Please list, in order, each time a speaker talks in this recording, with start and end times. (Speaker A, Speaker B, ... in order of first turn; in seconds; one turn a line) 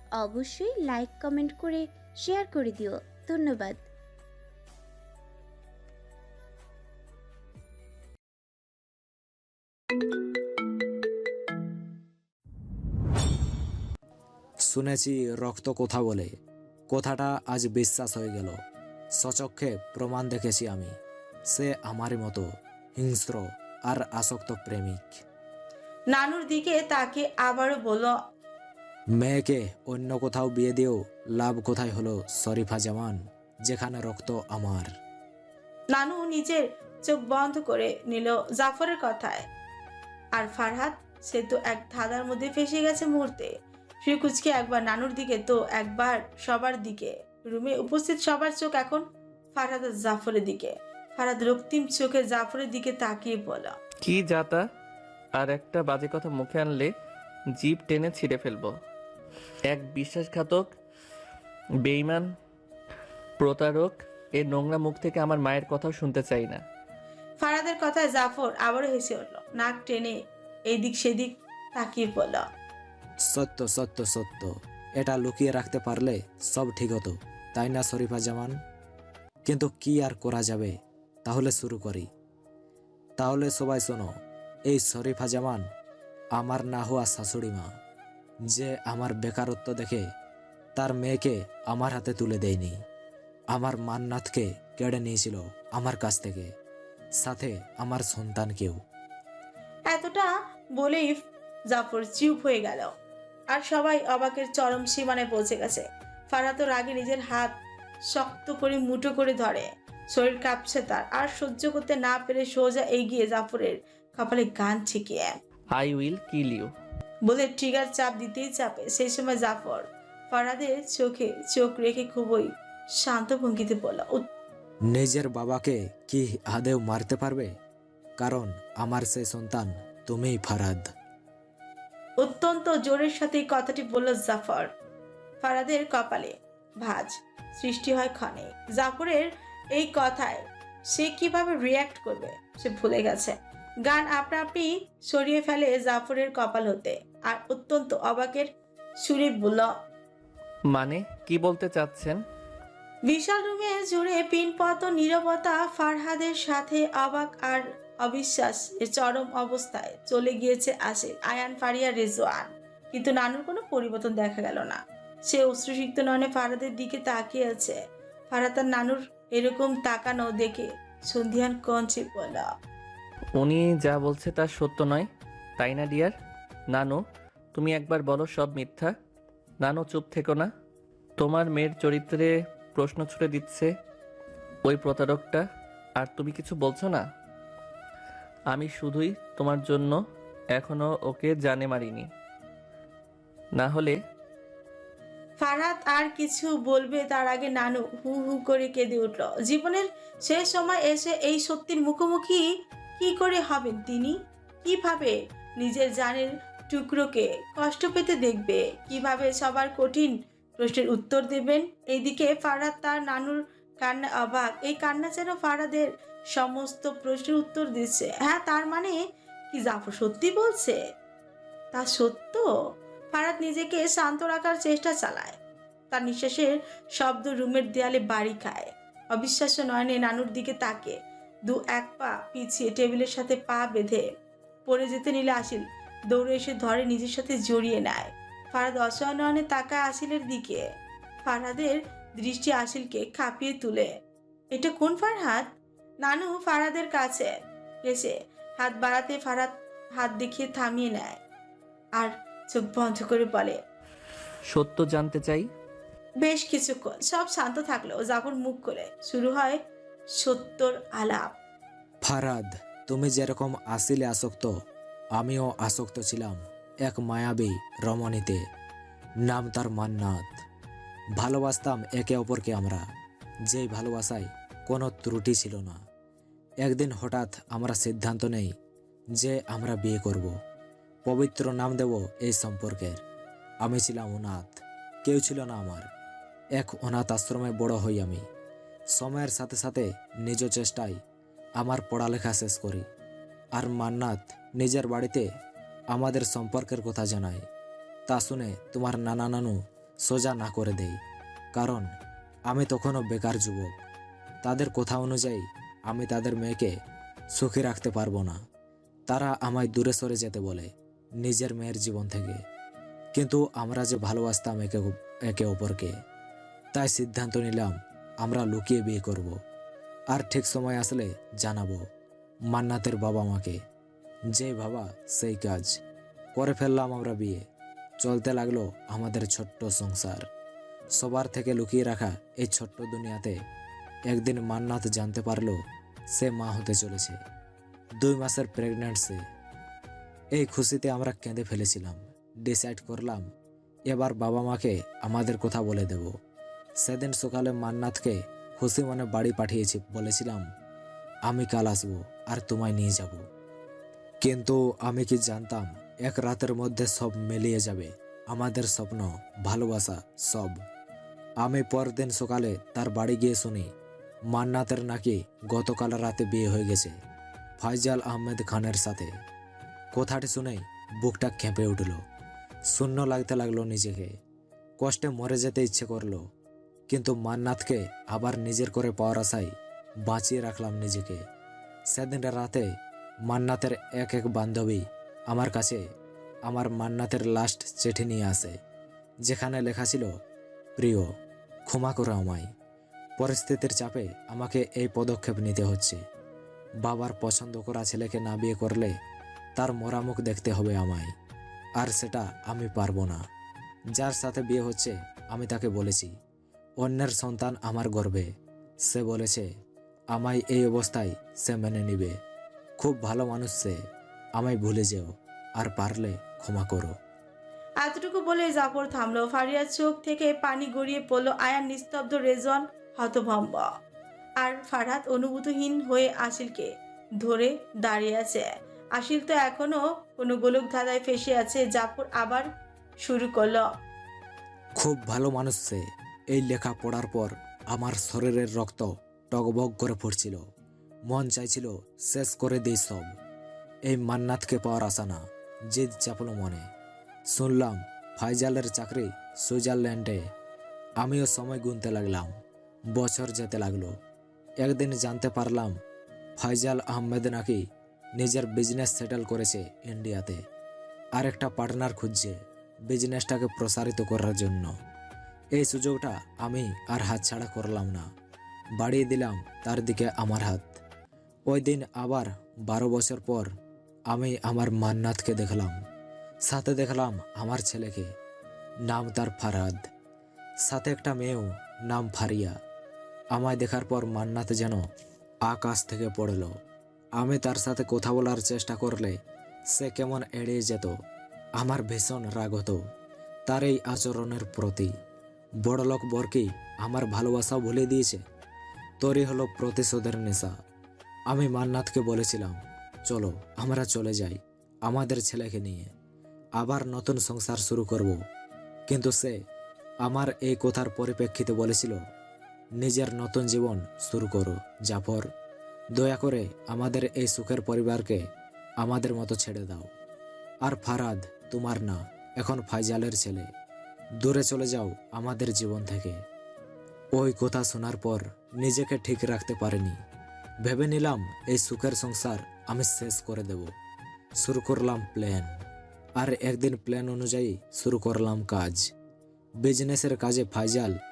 Speaker A: 0.2-3.9
Speaker B: 14.6-16.3
Speaker B: 16.9-18.6
Speaker B: 19.1-20.9
Speaker B: 21.5-25.2
Speaker C: 26.1-28.2
Speaker B: 29.2-34.9
Speaker C: 35.9-39.5
Speaker C: 40.3-53.7
Speaker D: 54.0-54.6
Speaker D: 55.4-56.9
Speaker D: 57.6-58.7
Speaker D: 59.7-60.7
Speaker D: 61.9-62.3
Speaker D: 63.4-66.6
Speaker C: 67.4-70.2
Speaker C: 70.7-72.5
Speaker B: 73.2-78.5
Speaker B: 79.5-80.7
Speaker B: 81.2-82.1
Speaker B: 83.2-84.1
Speaker B: 84.7-85.6
Speaker B: 86.4-87.7
Speaker B: 88.5-90.0
Speaker B: 90.8-92.8
Speaker B: 93.5-96.5
Speaker B: 97.2-98.8
Speaker C: 99.9-101.2
Speaker C: 101.7-102.9
Speaker C: 103.5-107.5
Speaker C: 108.1-115.4
Speaker D: 115.7-116.7
Speaker C: 117.2-124.3
Speaker B: 124.9-127.5
Speaker B: 128.2-130.9
Speaker C: 132.2-134.7
Speaker C: 135.4-148.5
Speaker C: 149.0-149.7
Speaker D: 150.7-152.2
Speaker C: 153.1-167.8
Speaker C: 168.3-172.5
Speaker D: 173.4-175.1
Speaker D: 175.6-176.1
Speaker D: 176.7-177.0
Speaker D: 177.6-178.9
Speaker D: 179.6-180.5
Speaker D: 181.2-183.7
Speaker D: 184.7-185.4
Speaker D: 186.0-187.0
Speaker D: 188.5-190.0
Speaker D: 190.6-192.1
Speaker D: 193.6-194.0
Speaker C: 195.4-202.4
Speaker C: 203.0-219.0
Speaker C: 219.5-220.8
Speaker C: 221.7-222.5
Speaker C: 223.1-225.4
Speaker C: 225.9-234.1
Speaker C: 234.7-240.6
Speaker C: 241.2-243.9
Speaker C: 244.5-247.3
Speaker C: 247.8-251.2
Speaker C: 252.0-253.6
Speaker D: 254.5-255.5
Speaker C: 256.2-259.6
Speaker C: 260.2-261.4
Speaker B: 262.0-264.5
Speaker B: 265.2-268.4
Speaker B: 269.2-270.4
Speaker B: 271.2-272.8
Speaker B: 273.5-275.8
Speaker B: 276.6-278.5
Speaker B: 279.2-280.3
Speaker B: 281.1-283.0
Speaker B: 283.6-285.9
Speaker B: 286.6-288.2
Speaker B: 288.9-291.0
Speaker B: 291.6-292.9
Speaker B: 293.6-295.2
Speaker B: 295.9-297.4
Speaker B: 298.1-301.0
Speaker B: 301.5-301.9
Speaker B: 302.5-303.8
Speaker B: 304.4-306.7
Speaker B: 307.3-308.4
Speaker B: 309.1-310.7
Speaker B: 311.2-312.4
Speaker B: 313.1-315.9
Speaker B: 316.7-319.4
Speaker B: 320.1-321.8
Speaker B: 322.5-323.6
Speaker B: 324.3-325.8
Speaker B: 326.4-327.4
Speaker B: 328.0-330.2
Speaker B: 330.9-333.4
Speaker B: 334.1-335.6
Speaker B: 336.1-337.2
Speaker B: 338.0-339.2
Speaker B: 340.3-343.2
Speaker B: 343.9-346.1
Speaker B: 346.8-350.4
Speaker B: 351.3-353.2
Speaker B: 354.2-360.6
Speaker B: 361.4-363.7
Speaker B: 364.3-366.9
Speaker B: 367.6-369.1
Speaker B: 369.9-372.0
Speaker B: 372.7-374.1
Speaker B: 374.8-376.2
Speaker B: 376.9-379.5
Speaker B: 380.1-381.2
Speaker B: 381.9-382.7
Speaker B: 383.3-385.8
Speaker B: 386.5-388.6
Speaker B: 389.2-390.1
Speaker B: 390.8-391.1
Speaker B: 391.7-392.5
Speaker B: 393.2-396.0
Speaker B: 396.8-398.9
Speaker B: 399.6-401.1
Speaker B: 401.8-403.2
Speaker B: 404.0-406.1
Speaker B: 406.8-408.3
Speaker B: 408.9-409.5
Speaker B: 410.1-412.1
Speaker B: 412.8-413.8
Speaker B: 414.4-416.9
Speaker C: 417.8-423.7
Speaker C: 424.4-426.7
Speaker C: 427.2-432.5
Speaker C: 433.0-433.7
Speaker B: 434.8-440.4
Speaker B: 441.1-443.1
Speaker B: 443.9-446.6
Speaker B: 447.3-450.2
Speaker B: 451.0-452.3
Speaker B: 452.9-453.9
Speaker B: 454.6-455.7
Speaker B: 456.4-457.6
Speaker B: 458.2-460.4
Speaker B: 461.2-462.4
Speaker B: 462.9-464.7
Speaker B: 465.6-468.1
Speaker B: 468.8-470.8
Speaker B: 471.5-473.5
Speaker B: 474.1-475.8
Speaker B: 476.5-478.1
Speaker B: 478.9-479.8
Speaker B: 480.6-482.5
Speaker B: 483.3-484.8
Speaker B: 485.5-486.5
Speaker B: 487.2-489.2
Speaker B: 489.7-490.9
Speaker B: 491.6-492.8
Speaker B: 493.5-494.9
Speaker B: 495.6-498.2
Speaker B: 499.0-500.5
Speaker B: 501.3-505.9
Speaker B: 506.6-508.2
Speaker B: 508.9-509.4
Speaker B: 510.0-512.0
Speaker B: 512.8-515.3
Speaker B: 516.0-518.2
Speaker B: 518.8-519.9
Speaker B: 520.6-523.5
Speaker B: 524.2-526.2
Speaker B: 527.1-530.0
Speaker B: 530.6-533.7
Speaker B: 534.4-535.5
Speaker B: 536.2-538.8
Speaker B: 539.6-541.0